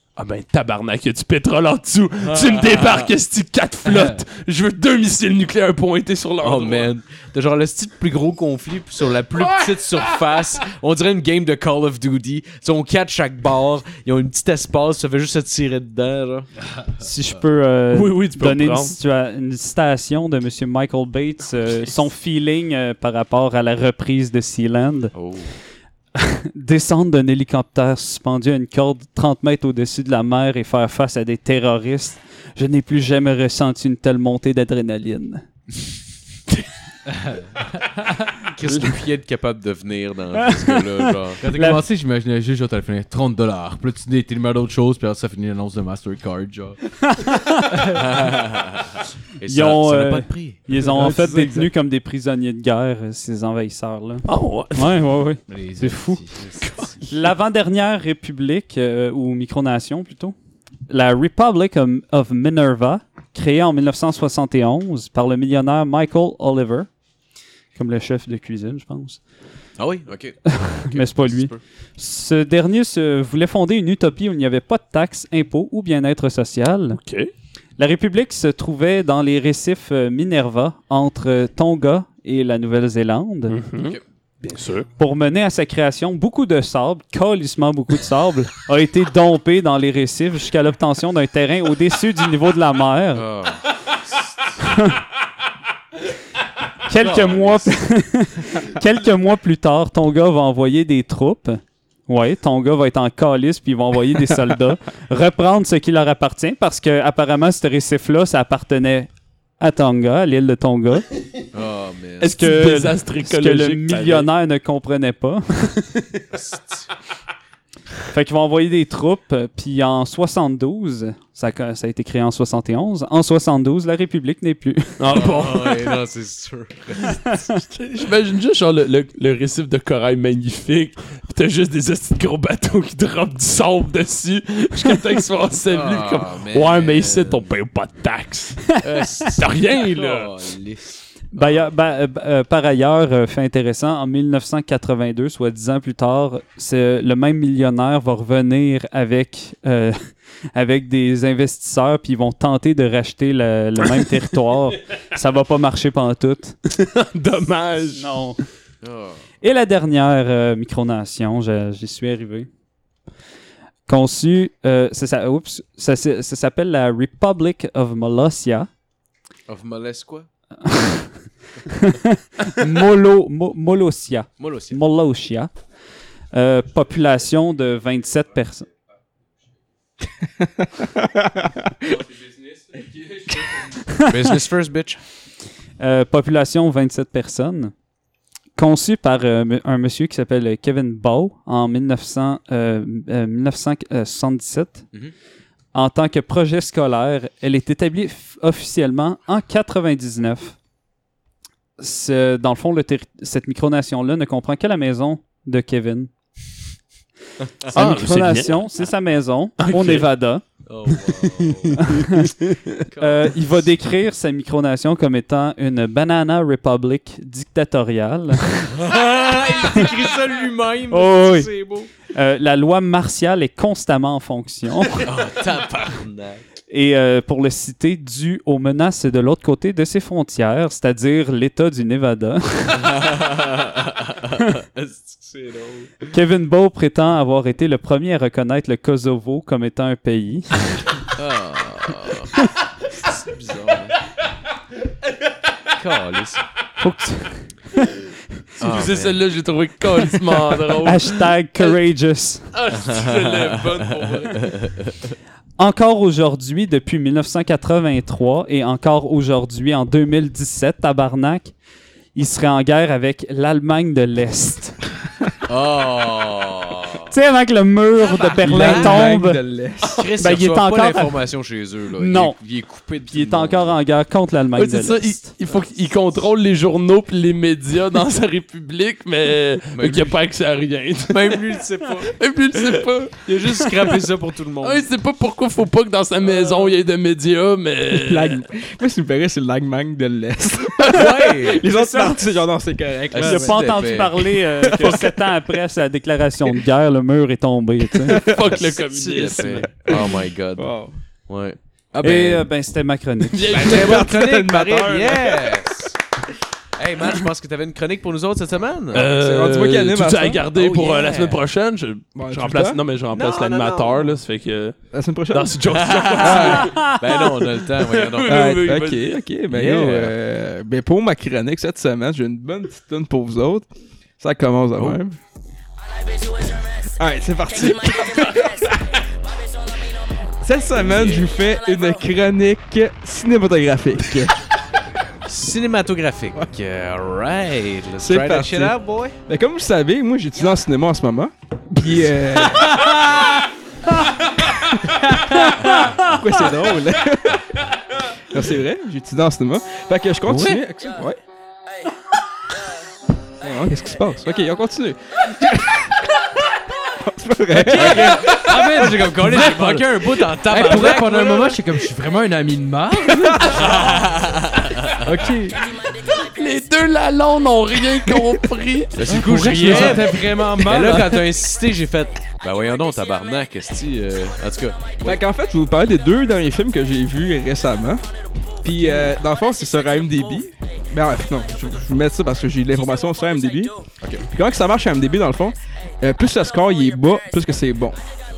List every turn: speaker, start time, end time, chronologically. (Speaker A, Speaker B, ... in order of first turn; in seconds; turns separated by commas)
Speaker A: 0.2-6.9, Speaker B: 2.2-3.1, Speaker C: 3.9-4.2, Speaker B: 6.4-16.5, Speaker A: 9.4-10.1, Speaker D: 17.0-25.1, Speaker A: 17.9-19.0, Speaker B: 25.1-25.5, Speaker D: 26.1-35.4, Speaker C: 37.1-38.1, Speaker B: 38.5-41.4, Speaker D: 40.4-41.8, Speaker C: 41.4-46.8, Speaker D: 47.0-48.0, Speaker B: 47.9-50.6, Speaker D: 49.5-56.2, Speaker C: 51.0-51.6, Speaker A: 54.3-54.9, Speaker C: 55.5-56.4, Speaker B: 56.4-56.8, Speaker A: 56.6-56.9, Speaker D: 57.1-60.4, Speaker D: 60.9-66.9, Speaker D: 67.8-69.2, Speaker B: 69.8-71.6, Speaker D: 70.5-77.0, Speaker A: 77.0-77.3, Speaker D: 77.8-83.6, Speaker A: 83.5-84.9, Speaker D: 85.0-93.3, Speaker B: 93.1-94.5, Speaker D: 94.6-95.0, Speaker D: 96.8-111.1, Speaker B: 97.0-97.7, Speaker B: 111.5-112.3, Speaker A: 112.2-114.3, Speaker D: 112.2-115.7, Speaker B: 116.3-116.9, Speaker D: 118.1-125.2, Speaker A: 125.0-125.9, Speaker B: 125.1-127.4, Speaker D: 127.1-127.6, Speaker A: 127.7-138.7, Speaker B: 135.7-137.5, Speaker B: 138.8-141.7, Speaker A: 139.3-140.3, Speaker D: 141.3-156.6, Speaker A: 156.7-158.2, Speaker D: 157.9-158.4, Speaker B: 158.8-159.2, Speaker D: 159.4-162.5, Speaker D: 163.9-168.7, Speaker B: 169.5-170.3, Speaker D: 170.6-175.5, Speaker B: 174.4-174.8, Speaker D: 176.3-178.7, Speaker E: 180.8-181.5, Speaker D: 183.8-184.4, Speaker B: 184.0-185.0, Speaker D: 185.8-187.7, Speaker D: 188.6-194.8, Speaker D: 195.7-200.6, Speaker D: 201.8-206.1, Speaker D: 207.7-210.4, Speaker A: 207.7-208.6, Speaker A: 209.6-210.1, Speaker B: 210.7-211.9, Speaker D: 211.8-212.3, Speaker A: 212.2-212.6, Speaker B: 212.9-213.3, Speaker D: 213.0-218.7, Speaker B: 218.7-221.9, Speaker D: 220.9-221.5, Speaker D: 222.1-225.1, Speaker B: 225.0-226.4, Speaker D: 226.7-233.1, Speaker B: 232.8-236.1, Speaker D: 236.1-241.1, Speaker B: 241.2-242.3, Speaker B: 242.9-244.0, Speaker B: 245.7-246.4, Speaker D: 246.8-248.0, Speaker A: 248.6-251.7, Speaker B: 248.6-249.2, Speaker D: 250.7-252.5, Speaker A: 252.5-254.5, Speaker B: 252.8-255.1, Speaker D: 255.6-261.5, Speaker D: 262.1-264.8, Speaker B: 265.5-267.1, Speaker D: 267.1-269.4, Speaker B: 268.1-269.1, Speaker E: 268.4-270.1, Speaker B: 269.9-273.8, Speaker D: 270.2-271.2, Speaker D: 272.0-272.4, Speaker D: 273.1-275.3, Speaker A: 274.6-281.4, Speaker B: 279.7-280.2, Speaker B: 281.1-284.9, Speaker A: 282.0-283.6, Speaker A: 284.6-288.5, Speaker E: 287.9-294.0, Speaker B: 290.9-291.7, Speaker D: 291.7-292.2, Speaker B: 293.1-294.9, Speaker D: 293.2-298.4, Speaker E: 294.6-295.2, Speaker E: 298.1-298.6, Speaker A: 298.1-299.7, Speaker B: 298.5-300.7, Speaker E: 299.5-300.9, Speaker B: 301.3-302.5, Speaker D: 302.0-303.6, Speaker A: 303.3-304.1, Speaker B: 303.5-306.0, Speaker E: 303.6-305.7, Speaker B: 306.8-309.1, Speaker A: 308.9-314.8, Speaker E: 309.0-310.5, Speaker B: 310.6-311.4, Speaker E: 312.2-312.8, Speaker B: 313.1-314.1, Speaker E: 314.9-315.6, Speaker A: 315.3-316.9, Speaker B: 315.7-318.6, Speaker E: 316.2-316.8, Speaker D: 316.7-317.0, Speaker A: 317.8-319.2, Speaker E: 318.2-323.7, Speaker B: 319.5-320.2, Speaker E: 324.2-325.2, Speaker E: 327.0-328.8, Speaker E: 330.4-334.4, Speaker B: 330.7-331.3, Speaker B: 335.2-339.2, Speaker E: 338.0-343.0, Speaker E: 344.7-347.4, Speaker D: 345.3-346.1, Speaker E: 348.3-351.2, Speaker C: 350.3-350.6, Speaker E: 353.4-356.1, Speaker E: 356.9-358.4, Speaker C: 357.6-363.7, Speaker B: 357.7-361.7, Speaker E: 363.1-363.5, Speaker B: 363.5-365.3, Speaker C: 365.0-365.6, Speaker A: 366.0-369.0, Speaker B: 368.9-375.2, Speaker C: 369.1-371.3, Speaker E: 369.6-370.1, Speaker E: 375.1-378.1, Speaker E: 378.6-383.7, Speaker B: 384.0-384.3, Speaker E: 384.2-388.0